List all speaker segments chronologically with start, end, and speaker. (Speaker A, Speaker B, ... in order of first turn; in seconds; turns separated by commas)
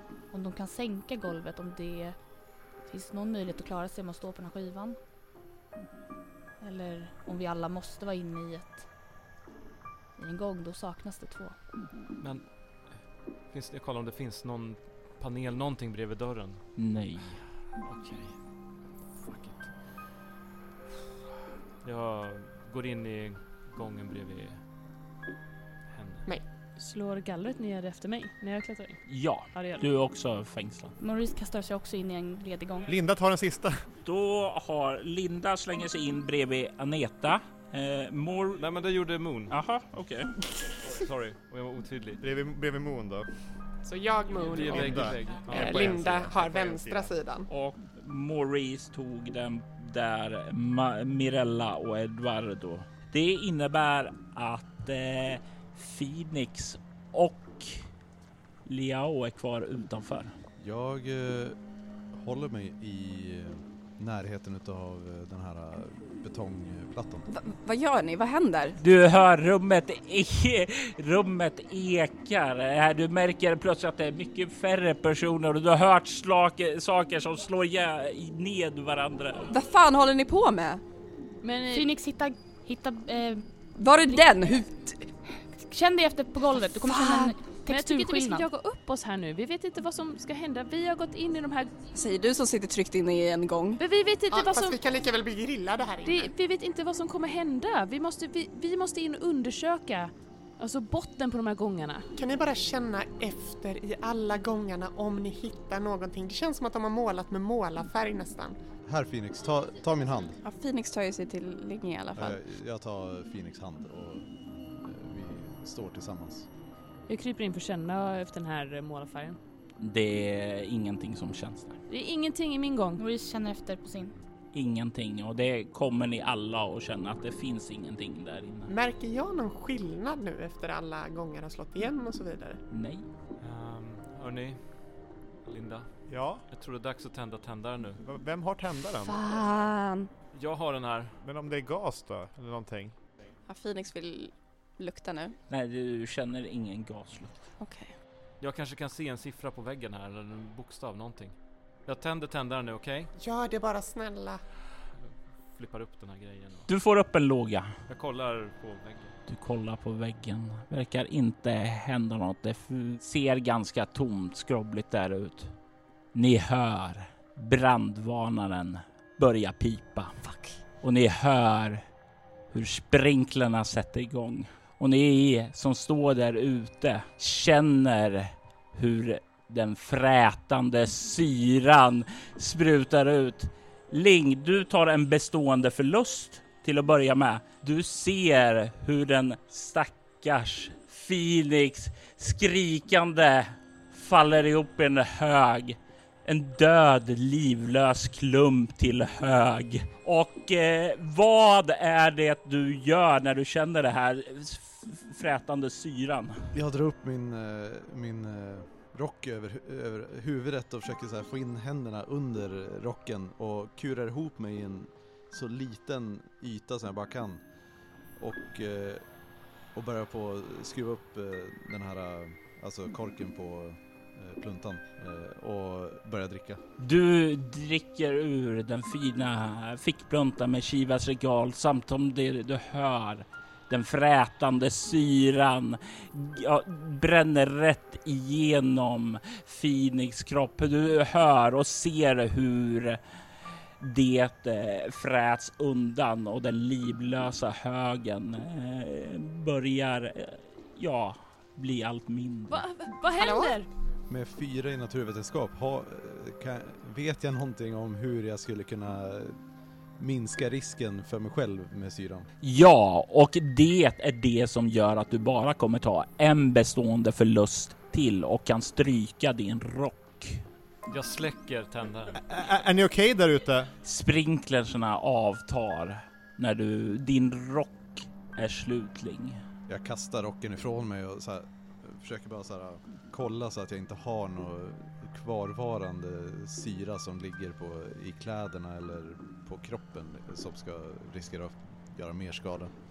Speaker A: 0.3-2.3, Speaker A: 2.8-5.0, Speaker A: 6.6-8.9, Speaker A: 10.2-11.6, Speaker B: 12.2-16.7, Speaker C: 16.8-17.4, Speaker B: 17.8-18.5, Speaker B: 19.1-19.7, Speaker B: 21.8-24.6, Speaker B: 25.9-26.3, Speaker D: 26.8-29.9, Speaker C: 29.1-30.9, Speaker A: 31.0-32.9, Speaker E: 32.9-33.8, Speaker C: 34.0-38.6, Speaker B: 38.6-39.5, Speaker C: 39.5-40.3, Speaker B: 40.9-42.2, Speaker E: 42.2-43.3, Speaker F: 43.8-47.5, Speaker B: 44.4-46.3, Speaker E: 44.6-47.1, Speaker C: 47.5-57.9, Speaker C: 58.7-60.3, Speaker G: 60.6-61.6, Speaker G: 62.1-67.3, Speaker H: 67.3-68.8, Speaker C: 68.8-79.5, Speaker H: 79.5-80.8, Speaker D: 81.4-81.9, Speaker A: 81.7-83.5, Speaker H: 83.8-85.1, Speaker A: 85.6-88.5, Speaker H: 86.9-87.3, Speaker D: 87.7-91.7, Speaker H: 91.9-93.8, Speaker D: 93.8-94.8, Speaker F: 94.3-96.3, Speaker D: 96.0-102.1, Speaker F: 102.2-108.6, Speaker G: 108.8-110.4, Speaker H: 110.4-112.4, Speaker G: 112.2-114.3, Speaker G: 114.8-116.5, Speaker D: 117.1-119.4, Speaker C: 119.8-121.8, Speaker D: 121.9-123.0, Speaker A: 123.0-124.2, Speaker C: 124.5-128.7, Speaker F: 128.7-132.6, Speaker C: 132.7-133.1, Speaker B: 133.4-134.8, Speaker B: 135.4-138.0, Speaker E: 136.1-136.5, Speaker E: 138.0-139.3, Speaker H: 139.1-140.1, Speaker B: 140.3-141.2, Speaker E: 141.2-142.9, Speaker H: 143.5-145.3, Speaker C: 145.5-147.4, Speaker H: 147.6-147.9, Speaker B: 148.4-153.1, Speaker F: 153.2-154.4, Speaker B: 155.0-156.7, Speaker C: 156.7-157.7, Speaker B: 157.9-159.2, Speaker C: 159.3-165.6, Speaker C: 166.1-170.2, Speaker H: 170.2-170.6, Speaker C: 170.8-171.8, Speaker C: 172.5-206.4, Speaker G: 206.5-217.4, Speaker G: 218.2-219.0, Speaker G: 219.7-226.6, Speaker C: 226.8-243.0, Speaker C: 243.8-252.7, Speaker D: 252.5-253.7, Speaker F: 253.1-253.6, Speaker G: 254.1-259.4, Speaker G: 260.0-262.3, Speaker C: 262.4-270.4, Speaker B: 270.9-272.2, Speaker E: 272.2-273.7, Speaker C: 273.8-279.4, Speaker G: 279.7-292.7